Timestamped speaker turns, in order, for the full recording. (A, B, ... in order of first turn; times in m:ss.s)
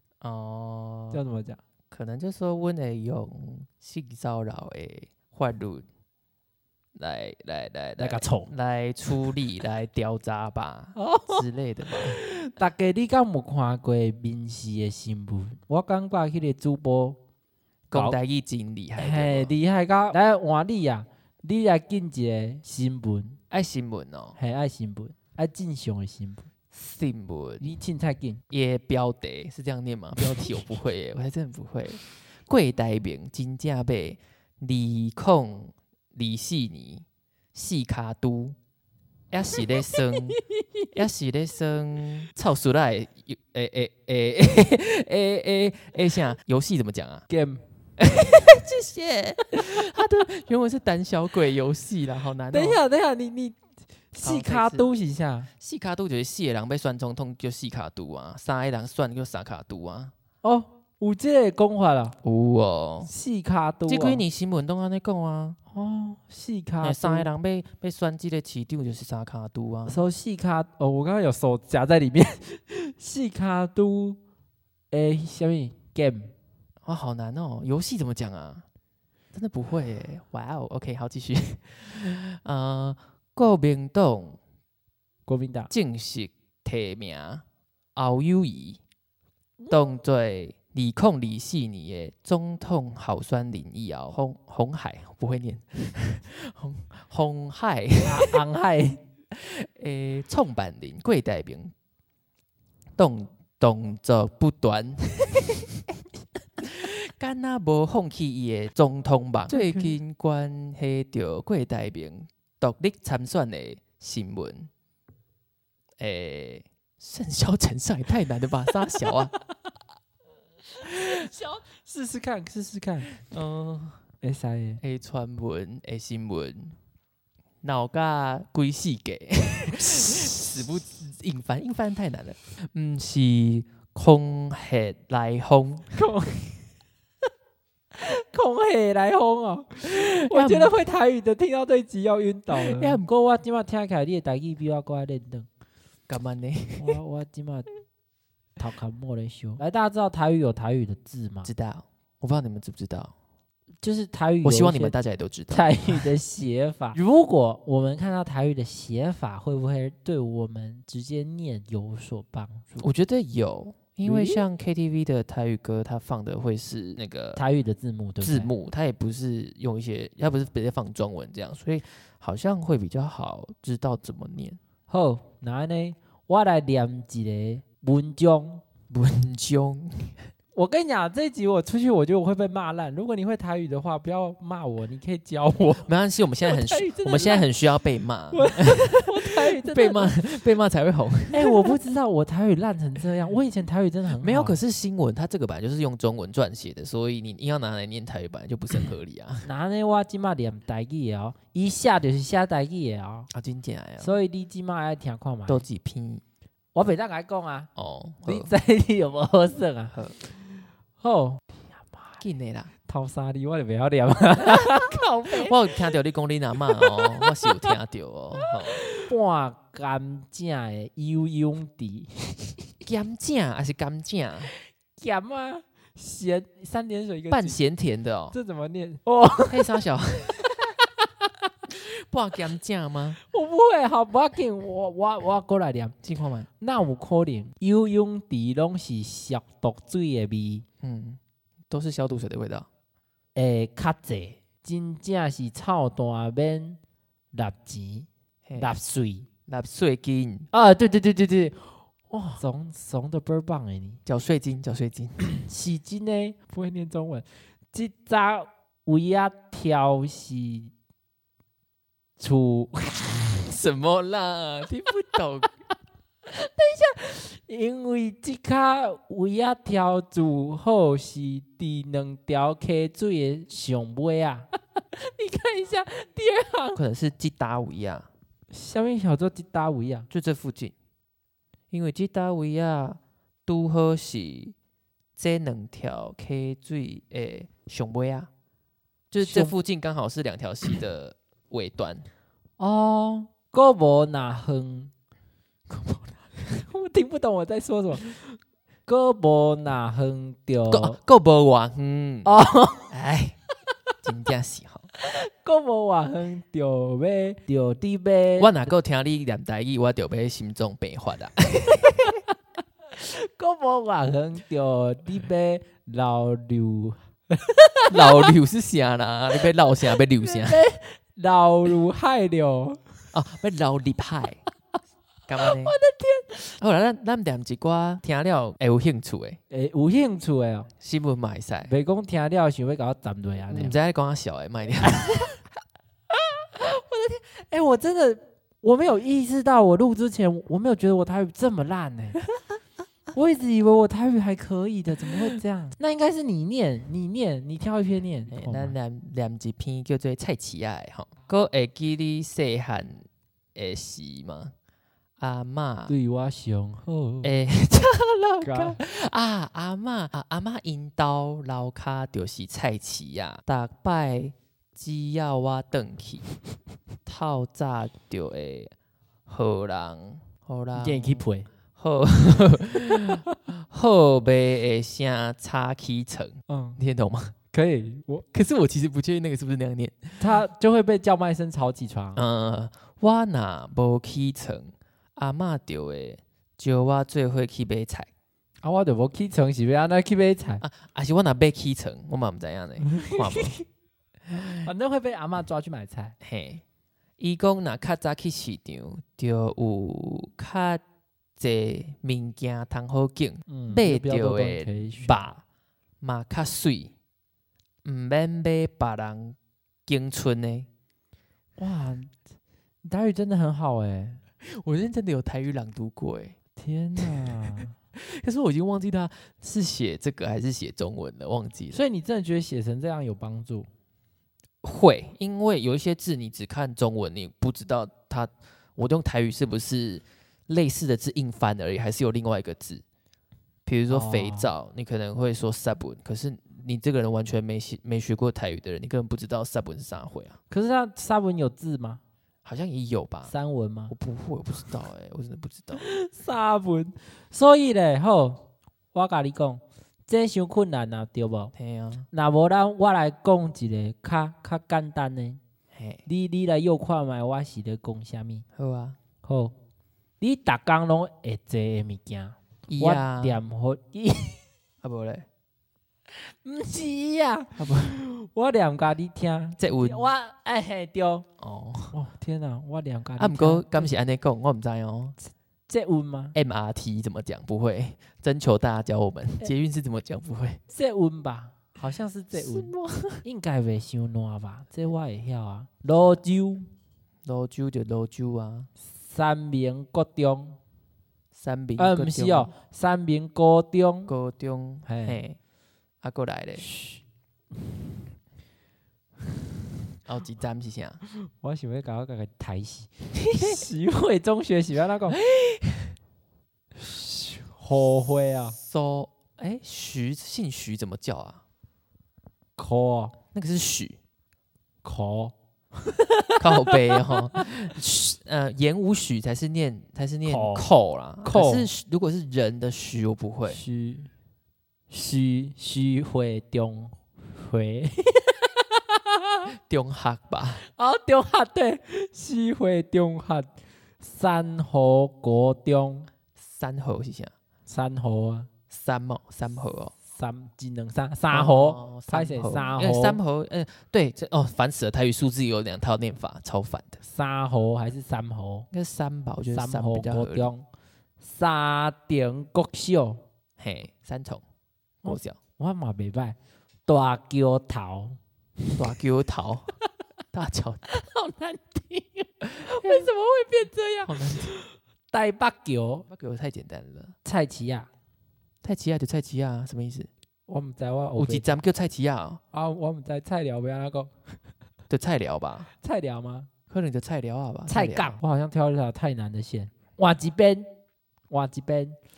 0:00.2-0:01.2 A
0:01.1-0:01.6 B
0:01.9-0:05.8 A
0:07.0-0:12.2 A
0:08.0-0:08.5 B
0:10.9-0:17.2 B
0:17.9-0:19.5 A
0:19.0-0:23.4 B
0:23.5-0:24.4 A
0:24.4-0:26.5 B
0:26.7-0:27.7 A
0:27.6-0:28.4 B
0:28.5-0:38.6 A
0:39.3-0:40.4 A
0:39.9-0:40.9 B
0:40.9-0:47.2 A
0:47.3-0:48.2 B
0:48.0-0:52.8 A
0:52.5-0:53.6 B
0:54.1-0:55.5 B
0:54.2-0:54.9 A
0:55.6-1:00.1 A
1:00.4-1:02.2 B
1:02.2-1:03.1 A
1:03.0-1:04.2 B
1:03.9-1:05.6 A
1:05.7-1:07.3 B
1:06.8-1:10.0 A
1:09.9-1:14.2 B
1:14.9-1:16.3 B
1:16.8-1:18.6 A
1:19.3-1:24.4 A
1:25.3-1:25.7 B
1:25.7-1:27.4 A
1:27.9-1:28.8 A
1:29.7-1:38.4 A
1:38.0-1:39.0 B
1:39.3-1:41.7 A
1:43.0-1:45.7 A
1:46.6-1:54.7 A
1:49.5-1:50.0 B
1:56.0-1:59.3 A
2:00.8-2:03.1 B
2:03.1-2:04.0 A
2:04.2-2:04.8 B
2:04.8-2:06.8 A
2:07.6-2:15.9 A
2:15.9-2:16.7 B
2:17.9-2:25.5 B
2:19.8-2:20.7 A
2:22.5-2:23.0 A
2:26.1-2:27.0 A
2:26.8-2:27.7 B
2:28.6-2:31.5 B
2:31.4-2:33.1 A
2:33.8-2:34.9 B
2:34.4-2:36.1 A
2:35.5-2:42.9 B
2:42.8-2:47.4 A
2:44.0-2:44.4 B
2:47.4-2:48.5 B
2:48.2-2:54.6 A
2:54.9-2:58.6 B
2:58.9-3:00.2 A
3:00.5-3:05.9 B
3:05.8-3:11.8 A
3:06.4-3:07.5 B
3:08.3-3:10.2 B
3:11.3-3:14.6 B
3:14.2-3:19.5 A
3:19.4-3:23.3 B
3:23.3-3:24.1 A
3:24.0-3:25.6 B
3:25.5-3:26.2 A
3:26.7-3:27.7 B
3:27.8-3:28.5 A
3:28.2-3:30.0 B
3:29.9-3:30.2 A
3:31.0-3:32.2 B
3:32.2-3:32.7 A
3:32.9-3:35.7 B
3:35.3-3:38.8 A
3:36.8-3:37.4 B
3:38.8-3:42.6 B
3:42.8-3:44.5 A
3:45.0-3:47.6 B
3:47.3-3:48.3 A
3:48.3-3:49.7 B
3:49.5-3:50.5 A
3:51.7-3:53.2 A
3:53.3-3:55.9 B
3:56.0-3:56.5 A
3:56.6-4:00.6 B
4:00.8-4:02.7 A
4:03.3-4:06.8 B
4:07.3-4:09.2 B
4:08.4-4:08.8 A
4:09.5-4:10.5 A
4:10.5-4:14.0 B
4:14.0-4:15.2 A
4:15.2-4:20.7 B
4:22.2-4:23.2 B
4:23.4-4:25.5 A
4:26.2-4:36.8 B
4:36.7-4:38.1 A
4:38.5-4:40.1 B
4:40.1-4:40.7 A
4:41.7-4:44.5 A
4:45.2-4:48.3 A
4:49.1-4:52.0 A
4:49.2-4:49.5 B
4:52.6-4:54.9 B
4:55.7-4:56.4 A
4:56.5-4:58.1 B
4:58.9-5:01.0 B
5:00.7-5:02.3 A
5:02.2-5:02.9 B
5:02.9-5:03.4 A
5:04.0-5:04.9 A
5:05.0-5:08.7 B
5:08.4-5:12.2 A
5:12.9-5:18.3 B
5:17.9-5:20.6 A
5:20.2-5:22.8 B
5:23.1-5:24.4 A
5:25.3-5:25.7 A
5:25.4-5:26.6 B
5:26.6-5:29.4 A
5:29.5-5:30.7 B
5:30.8-5:31.7 A
5:31.6-5:33.8 B
5:33.5-5:35.2 A
5:34.8-5:35.4 B
5:36.2-5:42.2 B
5:43.1-5:48.7 B
5:48.3-5:54.5 A
5:55.2-5:55.9 A
5:55.9-5:57.3 B
5:57.2-6:06.2 A
5:58.4-5:58.8 B
6:07.0-6:08.7 A
6:09.3-6:17.3 A
6:10.7-6:11.5 B
6:16.5-6:16.8 B
6:17.5-6:18.2 B
6:18.3-6:20.3 A
6:20.2-6:22.2 B
6:22.2-6:28.1 A
6:28.6-6:30.6 B
6:30.6-6:33.6 A
6:32.8-6:33.6 B
6:34.3-6:34.6 A
6:34.3-6:36.2 B
6:36.2-6:36.6 A
6:37.2-6:40.8 A
6:41.4-6:45.4 A
6:43.5-6:45.2 B
6:46.0-6:46.9 A
6:47.8-6:50.7 A
6:51.6-6:52.2 B
6:52.8-6:54.2 B
6:54.4-6:56.4 A
6:56.6-6:57.7 B
6:57.0-6:57.4 A
6:57.9-7:01.8 A
7:01.7-7:03.7 B
7:04.6-7:12.8 A
7:13.6-7:20.4 A
7:13.9-7:14.5 B
7:20.5-7:22.0 B
7:22.4-7:23.3 A
7:23.3-7:23.9 B
7:23.9-7:25.8 A
7:25.7-7:28.4 B
7:28.9-7:31.5 B
7:31.5-7:32.1 A
7:32.1-7:35.4 B
7:35.7-7:36.0 A
7:36.0-7:38.4 B
7:38.6-7:39.0 A
7:39.2-7:39.5 B
7:40.2-7:44.4 B
7:42.7-7:43.4 A
7:44.8-7:45.2 A
7:46.2-7:51.2 B
7:47.6-7:48.0 A
7:49.6-7:50.1 A
7:51.4-7:51.9 A
7:51.9-7:53.9 B
7:53.2-7:55.2 A
7:55.7-7:56.3 B
7:56.3-8:00.6 A
8:00.7-8:06.7 B
8:02.3-8:03.2 A
8:07.2-8:08.7 A
8:08.9-8:10.6 B
8:11.3-8:12.5 A
8:11.8-8:14.1 B
8:14.1-8:15.4 A
8:14.8-8:15.2 B
8:16.0-8:16.6 A
8:16.6-8:17.0 B
8:20.0-8:21.0 A
8:21.4-8:25.2 B
8:23.3-8:23.6 A
8:25.1-8:25.9 A
8:26.8-8:28.6 B
8:28.6-8:31.4 A
8:32.6-8:33.2 B
8:33.3-8:34.0 A
8:34.8-8:37.4 B
8:36.4-8:43.6 A
8:40.2-8:40.7 B
8:41.2-8:41.7 B
8:43.5-8:44.1 B
8:44.9-8:49.4 B
8:49.7-8:50.6 A
8:50.6-8:53.5 B
8:54.0-8:56.1 B
8:56.4-8:57.3 A
8:57.7-8:58.5 B
8:58.7-8:59.9 A
9:00.0-9:03.2 B
9:01.3-9:07.0 A
9:07.0-9:08.7 B
9:08.7-9:10.5 A
9:09.5-9:10.6 B
9:11.2-9:13.2 B
9:13.6-9:14.4 A
9:15.0-9:15.4 A
9:15.0-9:16.4 B
9:16.9-9:18.2 B
9:18.8-9:19.7 A
9:20.3-9:20.8 A
9:20.9-9:26.1 B
9:22.6-9:23.1 A
9:24.0-9:24.5 A
9:26.1-9:27.1 A
9:27.2-9:27.9 B
9:28.6-9:30.1 A
9:30.5-9:31.6 B
9:31.2-9:32.4 A
9:32.5-9:34.1 B
9:34.9-9:35.7 A
9:35.8-9:36.5 B
9:36.7-9:38.2 A
9:37.7-9:40.7 B
9:41.3-9:42.0 B